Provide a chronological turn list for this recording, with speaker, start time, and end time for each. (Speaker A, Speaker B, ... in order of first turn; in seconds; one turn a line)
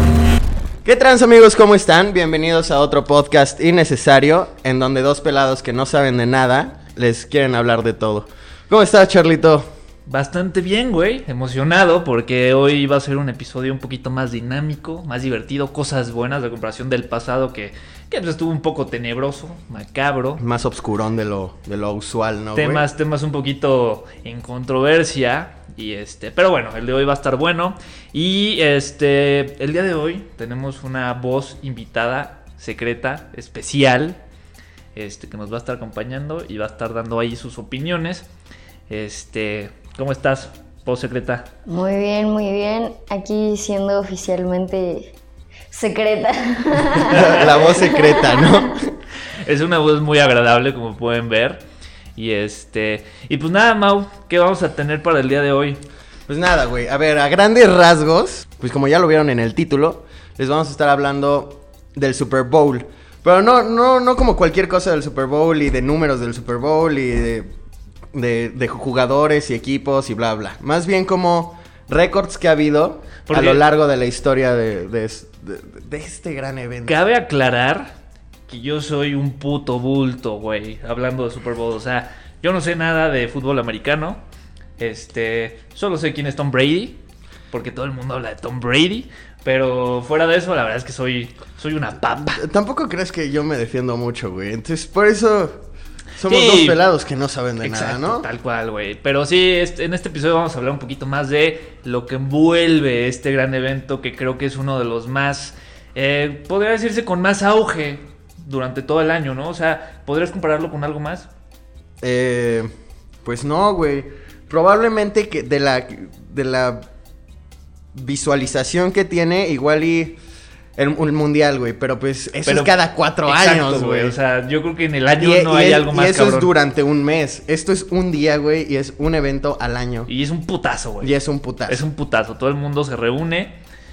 Speaker A: 0.8-9.7
Speaker B: 10.1-20.4
Speaker A: 20.4-22.9
Speaker B: 22.6-34.2
Speaker B: 35.0-38.3
Speaker B: 38.9-41.5
Speaker C: 41.7-45.2
Speaker C: 45.7-48.7
Speaker A: 47.1-48.8
Speaker B: 47.1-47.6
Speaker B: 49.4-51.6
Speaker B: 52.2-55.8
Speaker A: 56.3-67.5
Speaker A: 68.1-77.0
Speaker B: 73.3-73.6
Speaker B: 76.9-77.9
Speaker B: 78.5-84.2
Speaker B: 84.8-87.0
Speaker B: 87.5-92.4
Speaker A: 92.1-95.6
Speaker A: 96.2-98.3
Speaker B: 96.2-96.8
Speaker B: 97.6-111.3
Speaker A: 112.0-112.7
Speaker A: 113.2-116.8
Speaker A: 117.9-120.2
Speaker A: 120.8-124.2
Speaker B: 122.5-126.5
Speaker A: 125.2-130.1
Speaker B: 130.1-131.1
Speaker A: 131.0-131.8
Speaker B: 131.7-133.6